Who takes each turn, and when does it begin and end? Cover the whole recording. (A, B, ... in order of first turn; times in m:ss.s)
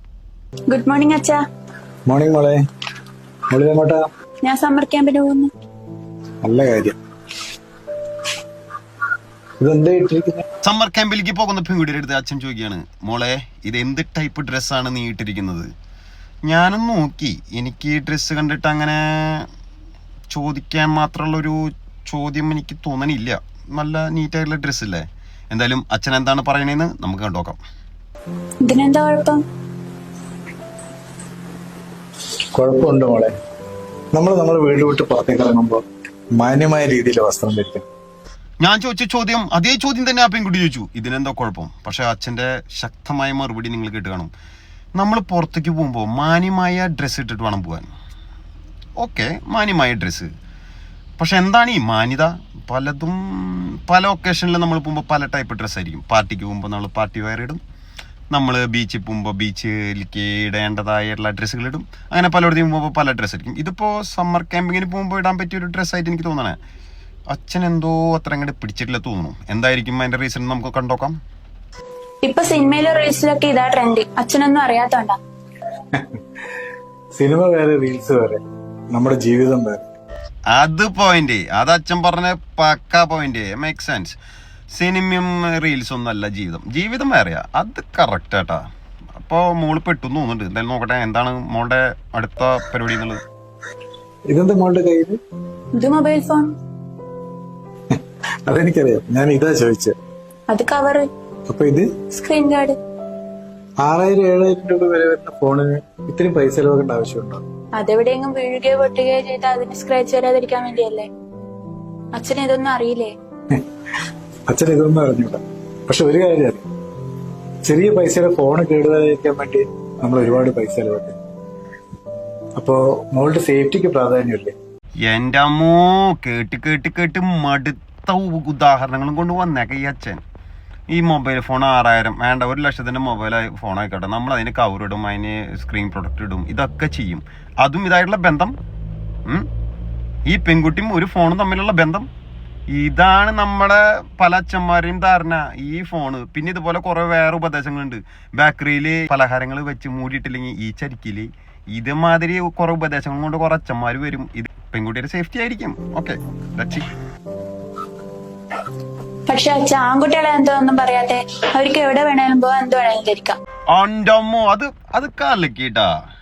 0:00.7-0:01.4 A
0:02.1-0:02.6 B
0:03.5-0:04.1 B
0:04.4-0:05.5 A
0:06.4-0:07.0 B
0:09.6-0:10.4 B
0:10.6-0:15.7 C
0:16.4-0:19.4 C
0:20.3-0:21.6 C
0:22.1-0:27.6 C
0:28.6-0:29.4 A
0:32.5-0:33.3 B
0:34.1-0:35.8 B
0:36.4-0:37.8 B
0:38.6-0:44.3 C
0:45.0-0:47.9 C
0:49.0-0:50.3 C
0:51.2-0:57.6 C
0:58.3-1:06.6 C
1:07.3-1:11.2 C
1:12.2-1:15.2 A
1:15.9-1:16.2 B
1:17.2-1:18.4 B
1:18.9-1:19.8 B
1:20.5-1:24.1 C
1:24.7-1:28.6 C
1:29.2-1:33.2 C
1:34.3-1:35.2 B
1:35.8-1:36.5 A
1:38.5-1:40.0 B
1:40.5-1:41.1 A
1:41.5-1:41.9 B
1:42.1-1:42.8 A
1:43.8-1:47.4 B
1:47.8-1:51.1 A
1:52.1-1:53.1 A
1:54.5-1:56.6 B
1:57.6-2:01.1 B
2:02.6-2:04.5 B
2:05.0-2:10.2 C
2:10.9-2:18.5 C
2:20.3-2:22.0 C
2:22.7-2:36.9 C
2:39.3-2:43.4 A
2:43.7-2:45.9 C